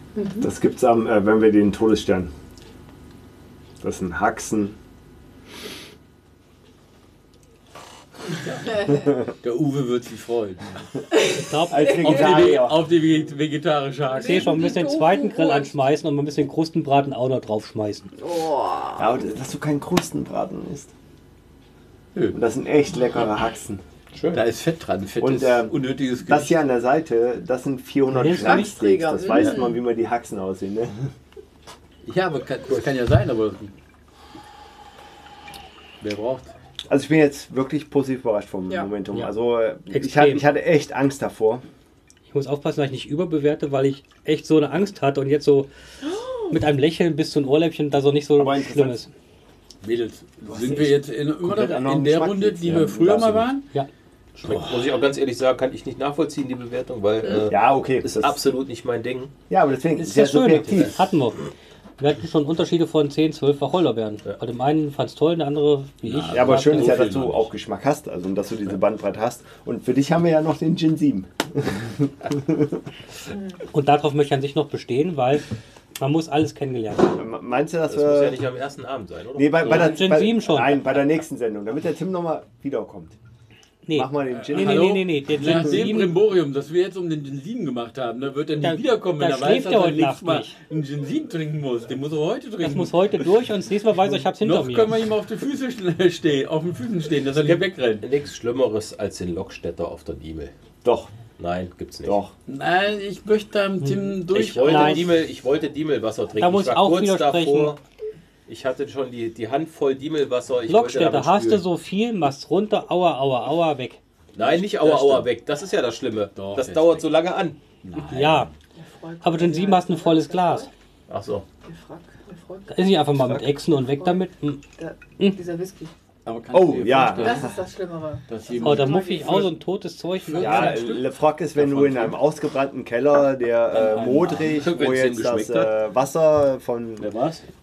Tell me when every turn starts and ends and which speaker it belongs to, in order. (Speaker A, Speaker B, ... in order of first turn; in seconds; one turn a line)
Speaker A: 0.1-0.5
Speaker B: 0.4-2.3
Speaker B: 3.8-4.8
Speaker A: 8.7-9.0
Speaker B: 9.0-9.3
Speaker C: 9.4-10.8
Speaker A: 11.1-12.0
Speaker D: 11.3-12.3
Speaker B: 11.7-12.8
Speaker C: 12.0-14.6
Speaker A: 14.1-15.8
Speaker D: 14.2-18.1
Speaker A: 18.2-19.1
Speaker B: 18.9-20.9
Speaker B: 22.3-23.8
Speaker E: 24.1-24.4
Speaker C: 24.3-26.6
Speaker B: 25.2-31.0
Speaker D: 28.1-28.8
Speaker A: 28.3-29.8
Speaker C: 32.0-33.7
Speaker C: 36.0-36.5
Speaker B: 36.9-41.6
Speaker D: 39.9-40.4
Speaker D: 42.3-45.7
Speaker A: 46.0-46.5
Speaker D: 46.5-49.1
Speaker B: 48.4-49.0
Speaker C: 49.8-53.7
Speaker B: 50.5-53.4
Speaker E: 52.7-53.4
Speaker E: 54.4-59.3
Speaker C: 54.5-54.8
Speaker B: 57.5-58.4
Speaker B: 59.5-61.0
Speaker D: 60.0-61.4
Speaker D: 62.0-67.0
Speaker C: 66.0-67.5
Speaker B: 66.3-72.8
Speaker D: 73.7-75.5
Speaker D: 76.0-77.2
Speaker B: 77.1-78.4
Speaker E: 77.9-80.2
Speaker B: 79.3-83.2
Speaker D: 79.6-81.0
Speaker D: 83.8-86.2
Speaker B: 83.9-85.1
Speaker C: 84.4-93.2
Speaker D: 88.6-90.5
Speaker D: 92.6-94.9
Speaker C: 94.3-98.0
Speaker E: 97.4-100.5
Speaker B: 100.8-101.1
Speaker E: 101.4-102.2
Speaker B: 102.0-102.3
Speaker C: 102.5-105.1
Speaker D: 103.8-105.1
Speaker E: 104.3-107.8
Speaker D: 106.4-107.8
Speaker E: 108.5-111.7
Speaker D: 110.7-114.0
Speaker E: 114.3-117.6
Speaker C: 114.4-115.3
Speaker C: 116.3-117.1
Speaker C: 117.8-118.5
Speaker D: 118.0-118.5
Speaker A: 118.8-120.7
Speaker D: 119.2-120.7
Speaker E: 121.1-121.5
Speaker A: 121.6-122.7
Speaker D: 122.7-124.6
Speaker A: 123.9-124.2
Speaker A: 124.8-125.9
Speaker C: 126.2-127.5
Speaker B: 126.5-127.5
Speaker A: 127.1-129.5
Speaker C: 128.3-129.5
Speaker D: 128.6-130.8
Speaker C: 130.2-132.2
Speaker B: 130.4-137.1
Speaker C: 133.7-134.6
Speaker E: 133.7-135.8
Speaker E: 137.0-137.4